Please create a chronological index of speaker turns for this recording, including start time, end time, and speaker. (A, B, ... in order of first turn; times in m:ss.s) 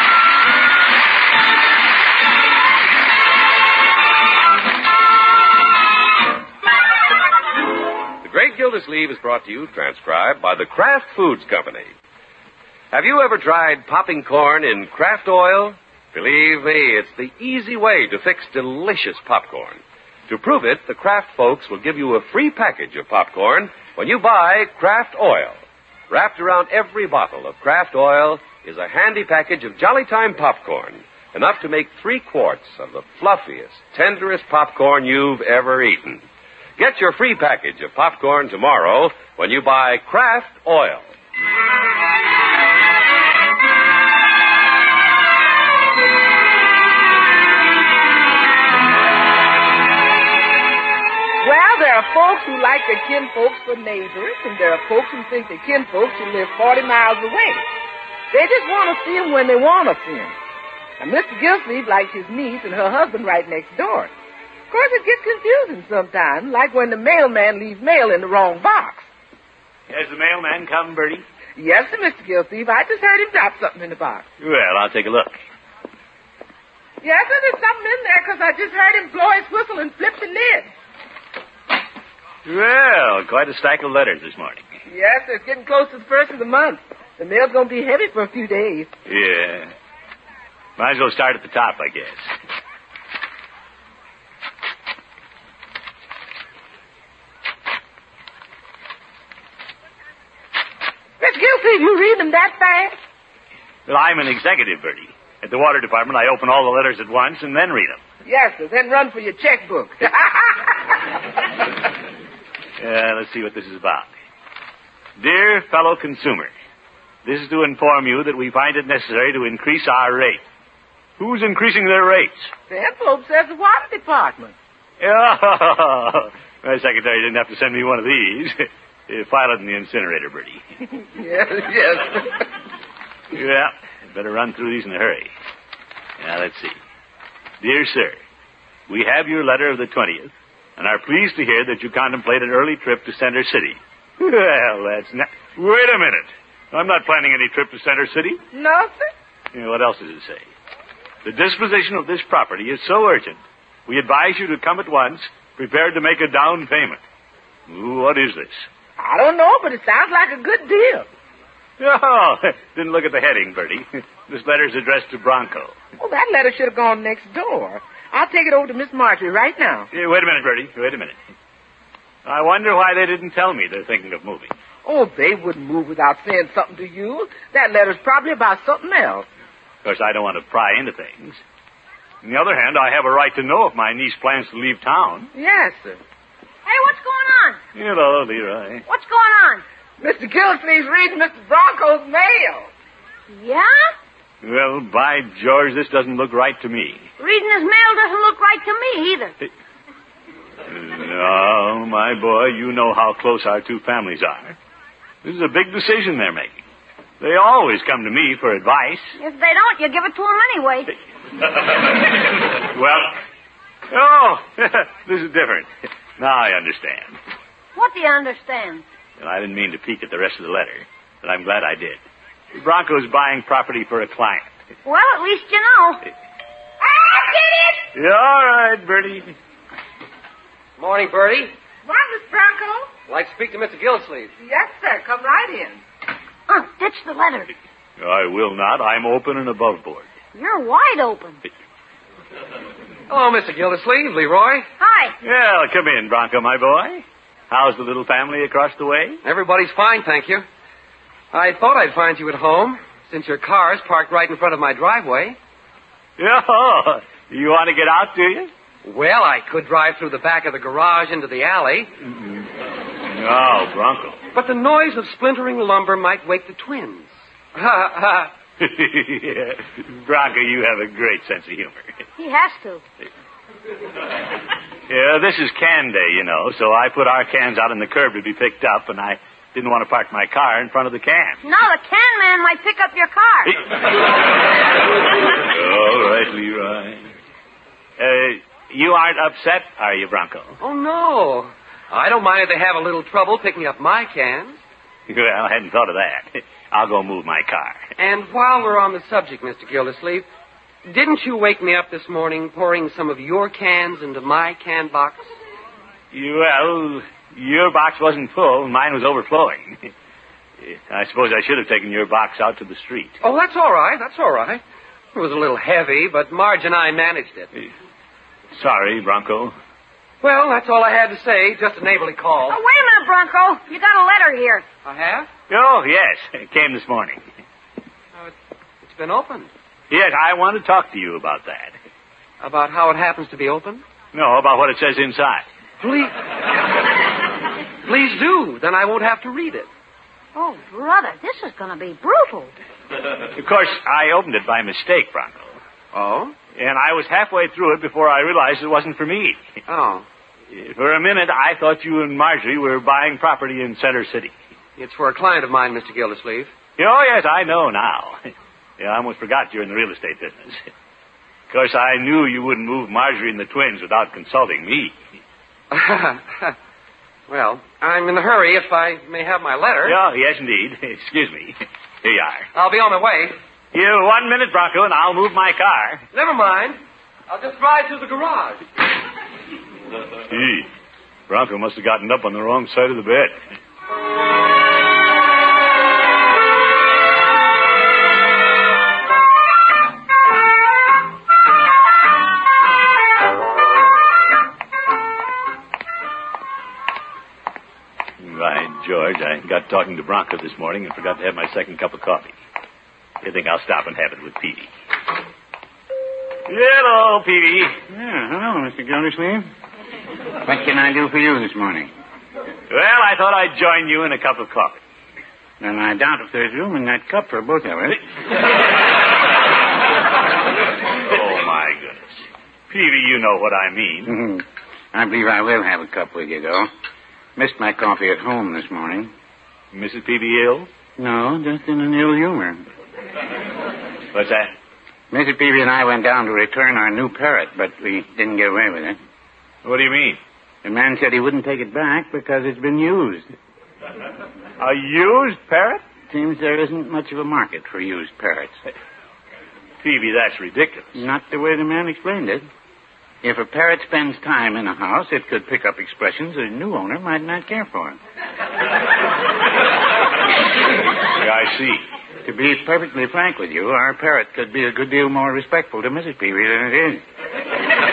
0:08.2-0:11.9 A
0:12.9-0:25.6 A
0:26.1-0:36.2 A
0:36.8-0:41.1 A
0:51.4-0:57.6 B
0:58.3-1:00.3 B
1:01.0-1:04.1 B
1:04.7-1:09.1 B
1:09.9-1:11.2 C
1:11.6-1:14.2 B
1:14.4-1:15.4 C
1:17.0-1:20.7 B
1:22.5-1:24.6 C
1:24.9-1:28.9 B
1:29.1-1:29.7 C
1:30.8-1:32.3 C
1:41.2-1:43.0 B
1:43.9-1:48.0 C
1:48.3-1:51.0 B
1:52.8-1:54.1 C
1:55.2-1:56.5 C
1:57.2-2:00.4 C
2:01.2-2:02.5 C
2:02.7-2:04.6 B
2:05.0-2:10.6 C
2:11.2-2:12.4 B
2:13.3-2:15.3 C
2:16.2-2:16.8 C
2:17.6-2:18.2 C
2:18.9-2:28.4 C
2:28.5-2:29.1 B
2:29.5-2:30.5 C
2:31.2-2:37.0 C
2:37.7-2:38.7 C
2:39.0-2:41.1 B
2:41.8-2:45.8 C
2:46.0-2:49.9 B
2:49.9-2:51.2 C
2:52.2-2:54.5 C
2:54.9-2:59.3 B
2:59.8-3:01.4 C
3:02.2-3:05.3 C
3:05.4-3:06.0 B
3:06.7-3:07.6 D
3:07.7-3:08.8 C
3:08.9-3:09.6 D
3:10.0-3:12.7 B
3:13.3-3:13.9 D
3:14.4-3:17.1 C
3:17.2-3:19.3 D
3:20.7-3:24.6 C
3:25.2-3:26.6 C
3:27.2-3:29.2 C
3:29.2-3:30.9 D
3:31.6-3:33.2 C
3:33.9-3:37.2 C
3:37.8-3:38.8 D
3:39.2-3:42.0 C
3:42.5-3:44.5 C
3:44.8-3:46.0 D
3:46.8-3:47.8 B
3:47.9-3:49.4 C
3:50.8-3:51.5 E
3:51.8-3:52.9 B
3:53.1-3:54.3 E
3:54.4-3:55.8 B
3:56.5-3:57.5 D
3:58.0-4:00.1 C
4:00.4-4:01.4 D
4:03.1-4:04.7 E
4:04.8-4:05.2 D
4:05.2-4:09.2 C
4:09.2-4:10.5 E
4:11.3-4:15.4 E
4:16.2-4:18.5 C
4:18.8-4:21.9 E
4:22.0-4:22.5 C
4:23.0-4:24.2 C
4:24.3-4:28.3 E
4:28.6-4:31.8 C
4:32.2-4:32.8 D
4:34.9-4:41.4 C
4:41.4-4:43.6 D
4:45.4-4:47.0 C
4:48.0-4:50.6 C
4:50.6-4:54.6 E
4:55.1-4:57.9 C
4:58.0-5:00.3 E
5:00.9-5:05.3 E
5:06.1-5:09.9 C
5:10.6-5:13.2 C
5:13.2-5:14.6 E
5:15.1-5:17.5 E
5:18.5-5:19.6 C
5:20.2-5:22.6 E
5:22.5-5:24.7 D
5:24.8-5:25.3 E
5:25.5-5:27.2 C
5:28.2-5:29.5 E
5:29.9-5:31.8 C
5:32.4-5:33.8 E
5:34.1-5:35.4 C
5:35.8-5:36.2 E
5:37.8-5:39.7 E
5:40.4-5:42.6 D
5:43.4-5:45.6 C
5:45.9-5:46.4 E
5:46.6-5:49.4 C
5:49.7-5:50.1 E
5:50.5-5:54.3 C
5:54.8-5:56.5 E
5:56.8-5:58.3 C
5:58.8-6:00.6 C
6:01.5-6:05.0 C
6:05.7-6:06.6 E
6:07.3-6:10.0 E
6:09.8-6:12.5 C
6:12.5-6:13.4 E
6:13.7-6:16.0 C
6:16.1-6:18.6 E
6:20.3-6:20.7 C
6:21.3-6:23.4 C
6:38.2-6:42.3 C
6:43.2-6:44.7 C
6:46.5-6:47.8 C
6:47.9-6:49.5 F
6:50.4-6:51.9 F
6:52.7-6:54.8 C
6:55.6-6:58.0 F
7:01.1-7:04.2 C
7:04.1-7:06.7 F
7:07.4-7:09.1 F
7:09.7-7:10.7 C
7:11.0-7:12.6 F
7:14.1-7:14.5 C
7:15.1-7:19.0 F
7:19.6-7:20.2 C
7:20.6-7:23.3 F
7:24.6-7:25.8 C
7:26.1-7:28.6 F
7:29.8-7:31.0 C
7:31.0-7:32.5 F
7:33.2-7:38.0 F
7:41.2-7:41.8 C
7:42.2-7:47.0 F